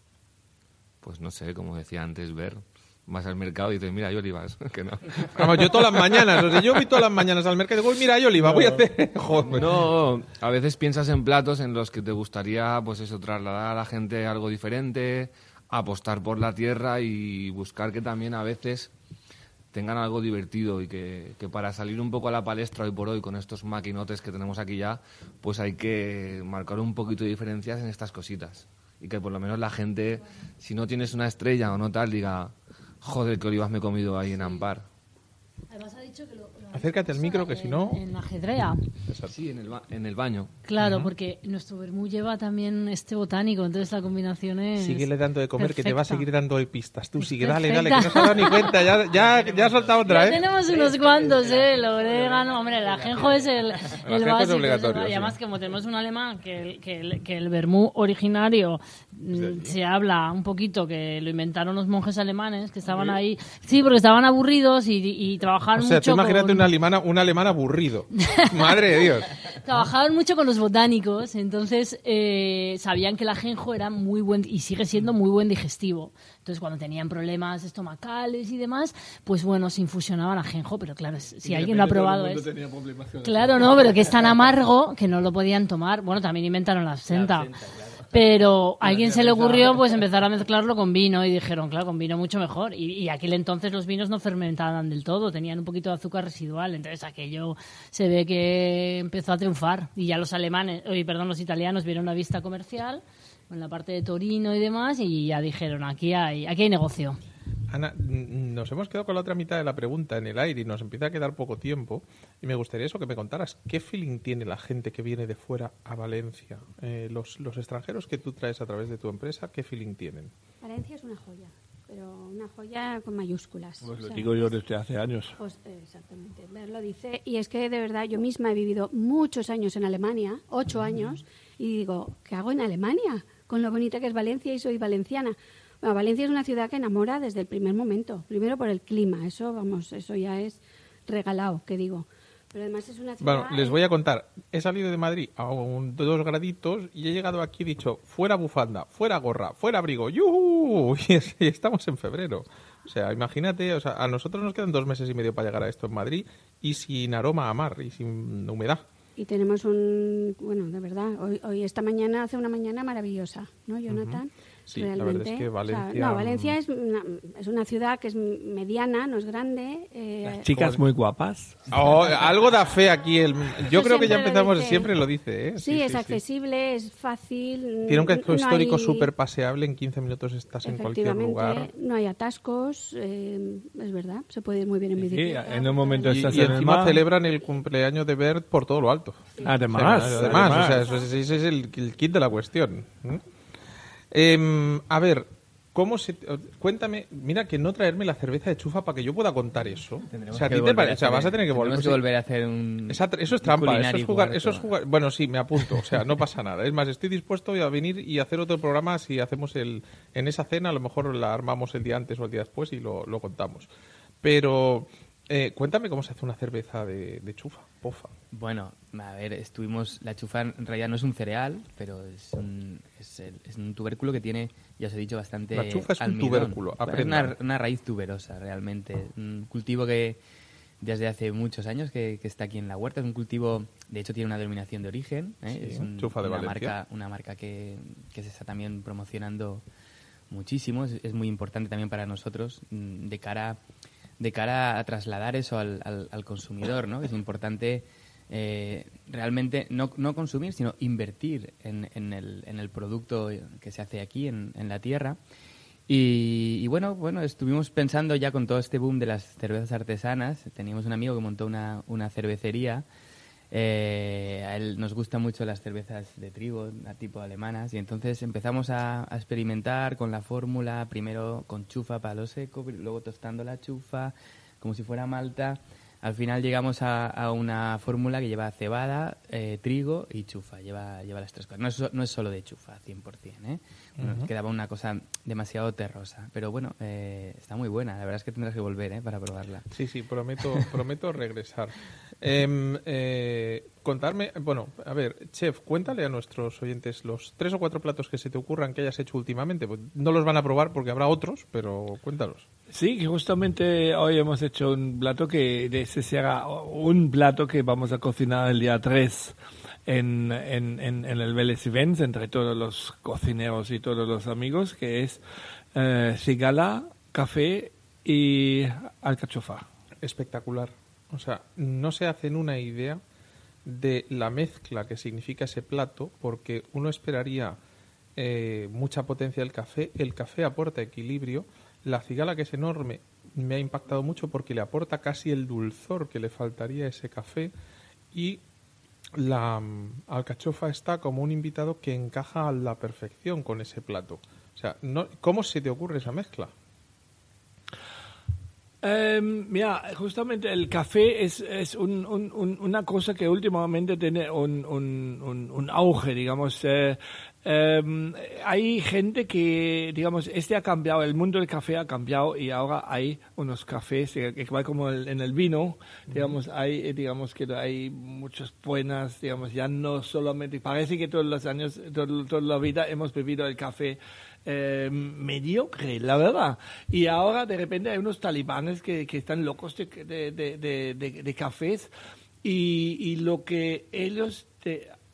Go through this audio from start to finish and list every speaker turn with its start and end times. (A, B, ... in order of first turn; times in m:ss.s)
0:01.0-0:06.7 A
0:05.4-0:09.9 B
0:08.4-0:08.9 A
0:09.4-0:18.9 A
0:19.7-0:34.9 A
0:35.7-0:38.9 C
0:36.8-0:38.0 B
0:39.1-0:39.4 B
0:39.3-0:40.5 A
0:40.7-0:46.3 C
0:40.8-0:41.1 B
0:44.8-0:50.4 B
0:47.2-0:49.0 C
0:49.1-0:54.0 D
0:50.0-1:06.7 C
0:54.0-0:55.4 B
0:59.3-0:59.8 B
1:05.8-1:09.9 B
1:08.1-1:22.5 C
1:21.4-1:24.2 E
1:23.2-1:27.5 C
1:27.1-1:28.2 D
1:28.1-1:47.2 C
1:28.8-1:30.0 E
1:47.7-2:00.3 B
2:00.6-2:04.6 F
2:03.8-2:05.4 E
2:05.4-2:23.8 F
2:23.2-2:38.8 B
2:39.2-2:50.5 F
2:43.9-2:46.6 B
2:50.2-2:52.3 E
2:50.5-2:50.8 B
2:51.7-2:56.2 B
2:53.7-2:54.9 F
2:55.6-2:59.1 F
2:57.9-3:01.7 B
3:00.6-3:06.6 F
3:05.0-3:07.0 E
3:06.0-3:13.2 B
3:09.4-3:10.9 E
3:10.2-3:10.8 F
3:14.1-3:22.0 B
3:20.1-3:24.7 D
3:22.9-3:33.7 B
3:34.2-3:38.1 B
3:38.3-3:50.2 D
3:45.5-3:47.4 B
3:50.8-3:59.6 D
3:55.5-3:56.7 B
4:00.3-4:03.6 D
4:04.2-4:15.2 D
4:15.9-4:22.9 D
4:23.5-4:49.7 D
4:44.0-4:44.3 B
4:49.7-5:02.5 B
5:02.7-5:15.2 E
5:15.8-5:19.7 E
5:20.0-5:23.0 B
5:23.6-5:27.6 B
5:28.2-5:37.5 B
5:38.1-5:38.4 B
5:39.2-5:46.5 B
5:48.8-6:21.9 E
6:22.4-6:24.9 E